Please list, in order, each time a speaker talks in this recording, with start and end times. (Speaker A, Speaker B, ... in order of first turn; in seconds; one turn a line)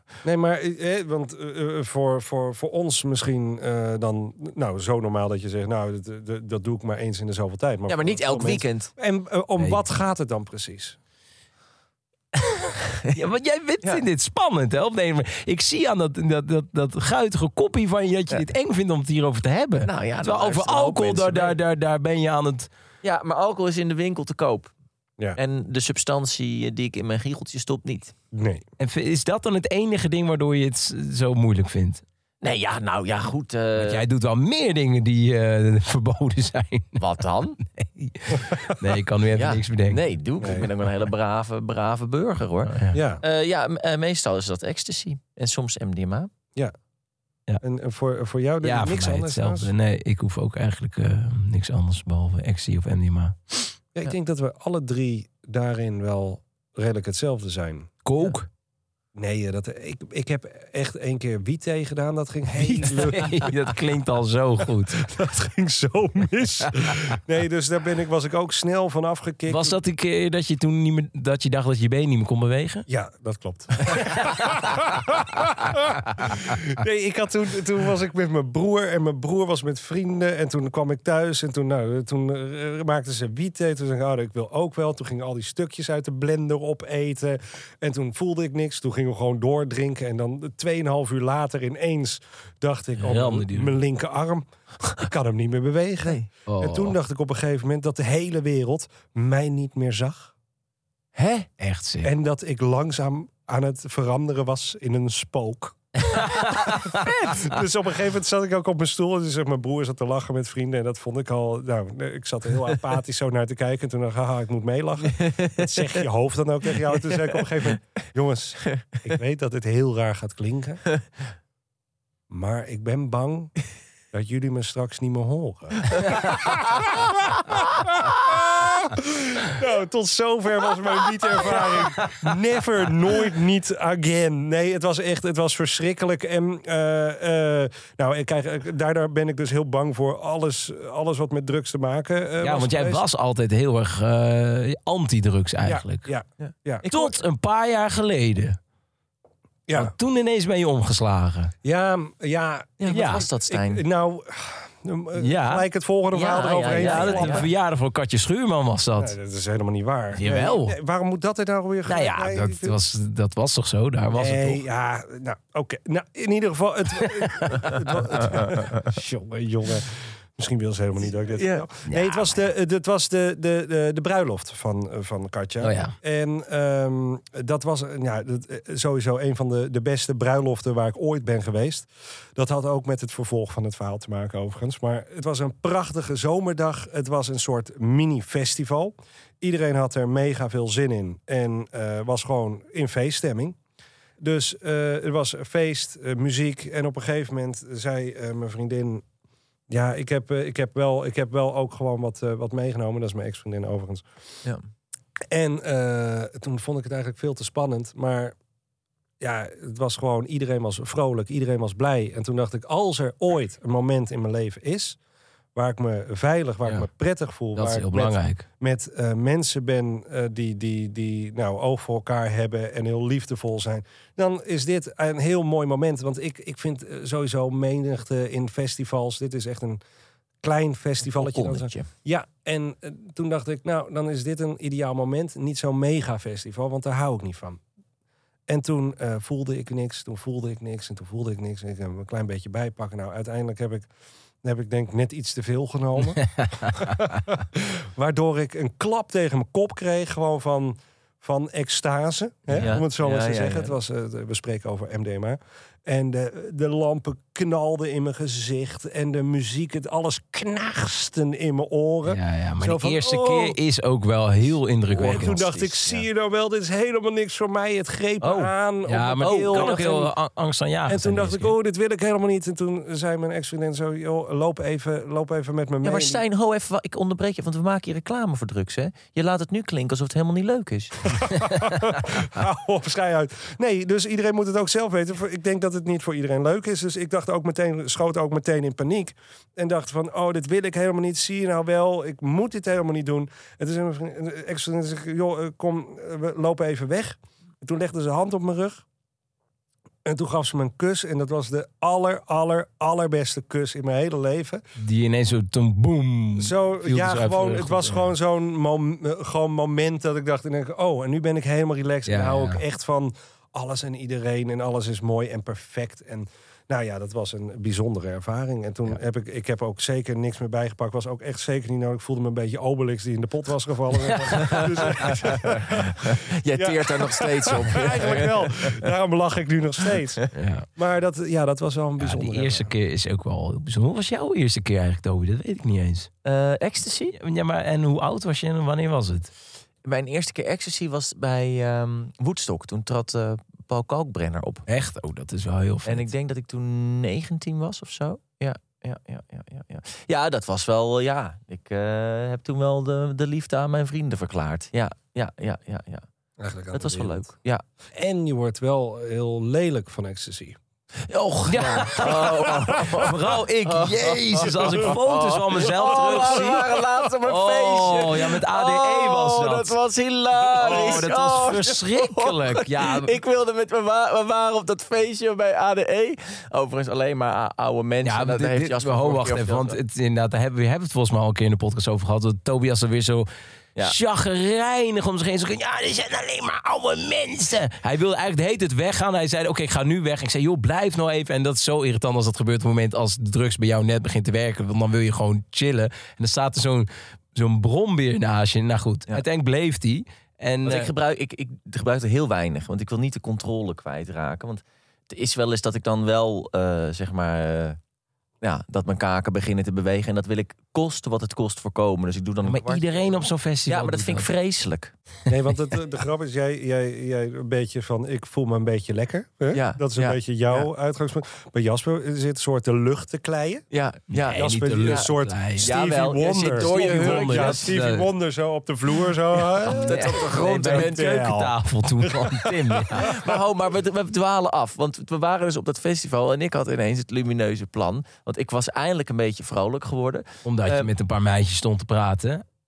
Speaker A: 0.2-11.0
Speaker B: 7.9-8.9
Speaker C: 12.3-22.7
Speaker B: 19.8-21.5
Speaker B: 23.0-24.7
Speaker B: 25.4-28.1
Speaker A: 28.3-28.6
Speaker C: 28.8-32.0
Speaker B: 32.4-34.0
Speaker C: 33.8-37.0
Speaker B: 37.0-37.6
Speaker C: 37.6-40.0
Speaker A: 38.5-38.8
Speaker B: 39.3-46.3
Speaker A: 40.4-40.7
Speaker C: 42.6-43.0
Speaker A: 42.9-43.2
Speaker A: 47.6-49.7
Speaker C: 48.6-53.7
Speaker A: 53.9-58.0
Speaker C: 58.0-58.5
Speaker A: 59.1-63.6
Speaker C: 62.5-65.0
Speaker A: 65.0-69.8
Speaker C: 69.5-72.8
Speaker A: 72.9-100.3
Speaker C: 74.0-74.6
Speaker C: 93.0-93.8
Speaker C: 96.5-97.0
Speaker B: 101.2-101.5
Speaker C: 101.6-102.1
Speaker A: 102.0-120.8
Speaker C: 106.0-107.0
Speaker B: 115.1-116.0
Speaker A: 122.3-123.5
Speaker A: 124.1-143.0
Speaker C: 142.4-146.1
Speaker A: 145.6-146.9
Speaker B: 146.4-147.1
Speaker C: 146.9-148.6
Speaker A: 149.7-149.9
Speaker C: 149.7-151.5
Speaker A: 151.6-157.5
Speaker B: 152.8-153.8
Speaker C: 152.9-153.2
Speaker C: 155.2-155.6
Speaker B: 156.1-157.5
Speaker C: 156.8-159.1
Speaker A: 158.9-162.8
Speaker C: 160.1-160.8
Speaker C: 161.9-164.6
Speaker A: 164.1-193.6
Speaker C: 167.0-168.0
Speaker B: 171.3-171.7
Speaker C: 171.9-172.3
Speaker C: 175.6-175.9
Speaker A: 194.2-199.0
Speaker A: 199.7-204.0
Speaker A: 205.3-208.3
Speaker A: 209.2-215.0
Speaker A: 215.5-229.8
Speaker C: 217.5-218.4
Speaker A: 230.4-237.6
Speaker B: 231.1-231.9
Speaker A: 238.5-243.9
Speaker A: 244.4-263.6
Speaker C: 246.2-246.8
Speaker C: 252.5-252.7
Speaker B: 252.6-253.7
Speaker C: 262.0-265.4
Speaker B: 264.9-266.0
Speaker A: 264.9-270.1
Speaker C: 268.2-271.5
Speaker B: 269.2-270.0
Speaker A: 270.9-276.2
Speaker B: 275.8-281.1
Speaker A: 281.1-298.8
Speaker A: 300.0-304.6
Speaker C: 304.8-308.1
Speaker A: 306.4-330.2
Speaker C: 312.1-312.6
Speaker C: 324.2-324.6
Speaker B: 324.4-328.8
Speaker C: 330.3-330.7
Speaker A: 330.8-332.7
Speaker C: 332.0-336.1
Speaker B: 336.2-337.1
Speaker C: 337.1-339.3
Speaker B: 339.8-344.6
Speaker C: 344.7-346.1
Speaker B: 345.8-356.0
Speaker A: 356.4-357.3
Speaker B: 356.7-357.6
Speaker A: 357.9-360.6
Speaker B: 361.1-379.8
Speaker C: 361.5-369.8
Speaker C: 370.5-373.1
Speaker C: 378.0-383.3
Speaker C: 383.8-400.9
Speaker B: 400.6-407.8
Speaker B: 408.4-414.9
Speaker C: 412.4-414.3
Speaker A: 415.3-423.6
Speaker B: 419.5-420.7
Speaker B: 423.7-425.1
Speaker C: 424.1-425.7
Speaker A: 424.3-433.1
Speaker B: 425.6-427.8
Speaker C: 426.6-428.1
Speaker C: 429.6-433.1
Speaker B: 429.6-431.1
Speaker B: 432.9-440.9
Speaker C: 440.4-442.4